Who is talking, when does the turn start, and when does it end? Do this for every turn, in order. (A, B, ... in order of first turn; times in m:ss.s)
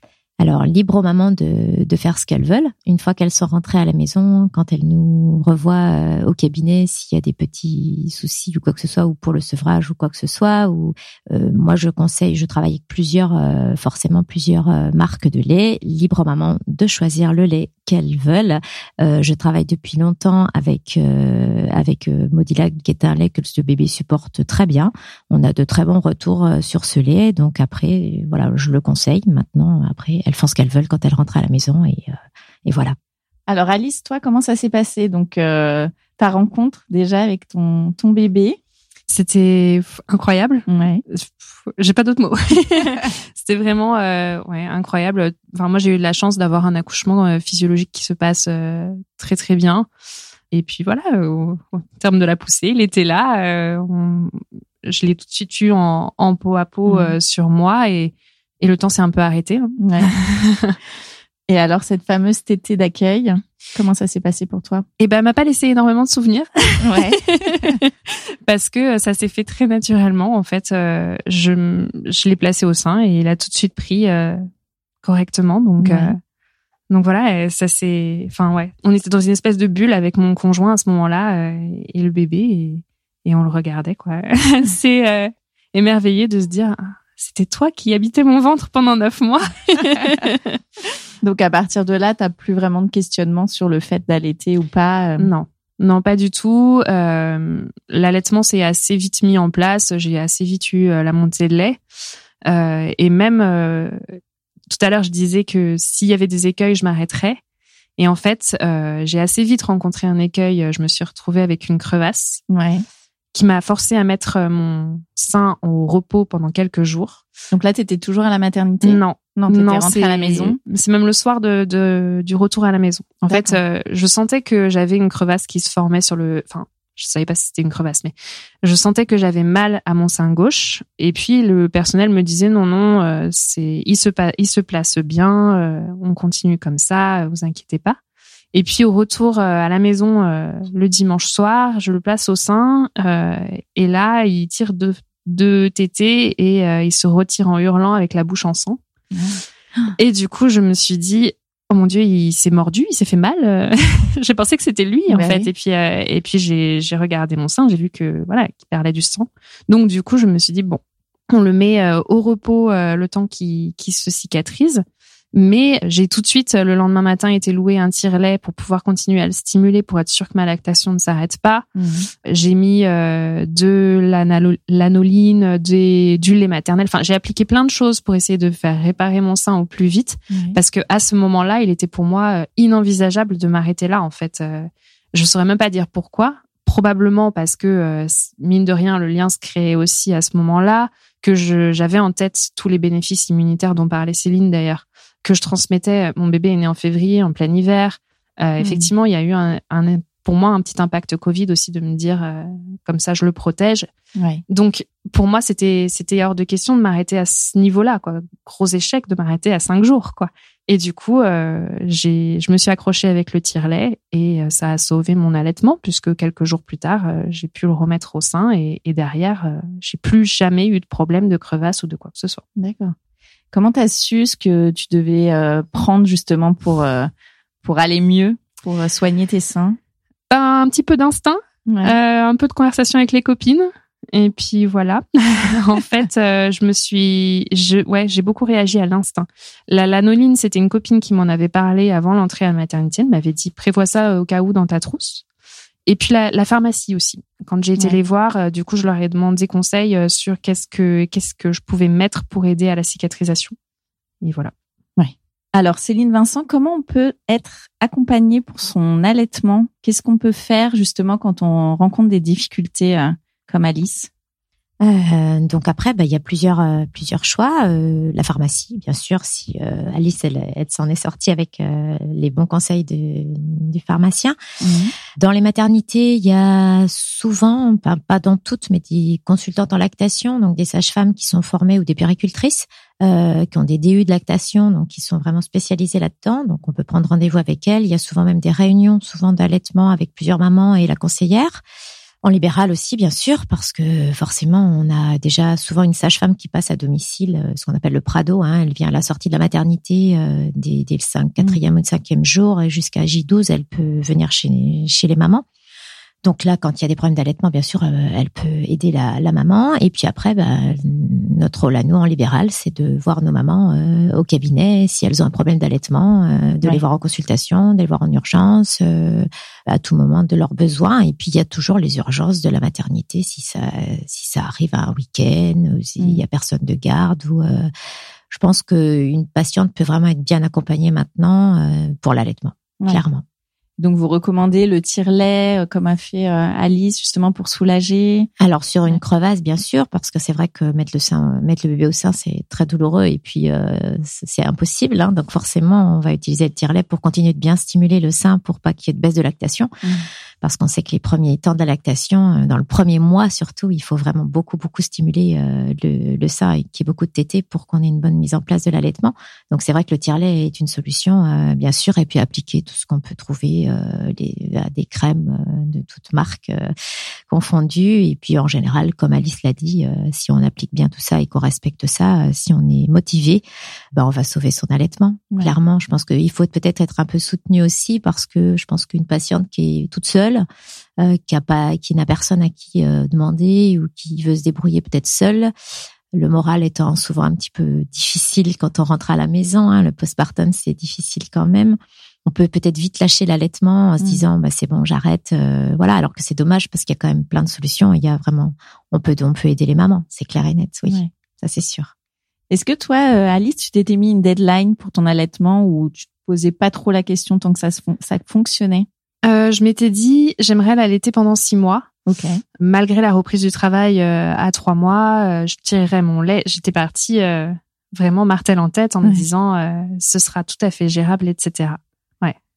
0:00.4-0:33.0 A
0:33.5-0:38.6 B
0:39.1-0:49.9 C
0:40.7-0:41.0 B
0:50.5-1:00.8 C
0:56.9-0:57.2 B
0:59.8-1:00.1 B
1:01.5-1:04.8 B
1:05.0-1:14.4 C
1:06.8-1:07.8 B
1:15.0-1:16.2 C
1:15.8-1:16.1 B
1:16.9-1:30.6 C
1:31.2-1:35.3 B
1:35.2-1:41.8 C
1:42.4-1:44.0 C
1:44.7-1:47.4 C
1:48.0-1:52.4 C
1:52.5-1:52.8 B
1:53.3-1:57.2 C
1:57.5-2:00.6 B
1:58.8-2:18.0 C
2:03.3-2:03.6 B
2:18.5-2:28.8 C
2:29.1-2:29.9 B
2:30.0-2:40.8 C
2:35.1-2:35.5 B
2:41.3-2:51.6 C
2:51.8-2:52.1 B
2:52.2-3:23.9 C
3:00.3-3:00.6 B
3:18.6-3:18.9 B
3:24.2-3:24.4 B
3:24.5-3:42.4 C
3:42.6-3:43.0 B
3:43.5-3:47.1 B
3:47.6-3:49.8 B
3:50.3-4:05.2 C
3:51.7-3:52.0 B
4:05.9-4:13.6 C
4:14.2-4:14.5 C
4:15.0-4:24.1 B
4:24.8-4:34.4 A
4:34.6-4:34.9 B
4:35.2-4:51.6 A
4:52.2-5:05.4 A
5:06.2-5:27.7 A
5:26.0-5:26.2 B
5:28.3-5:33.2 A
5:33.8-5:38.3 B
5:38.4-5:49.7 A
5:50.4-6:06.7 A
6:07.3-6:20.5 A
6:21.0-6:25.5 A
6:26.1-6:41.9 A
6:42.5-6:48.9 B
6:49.2-6:51.9 C
6:52.1-6:52.4 B
6:52.6-7:02.4 C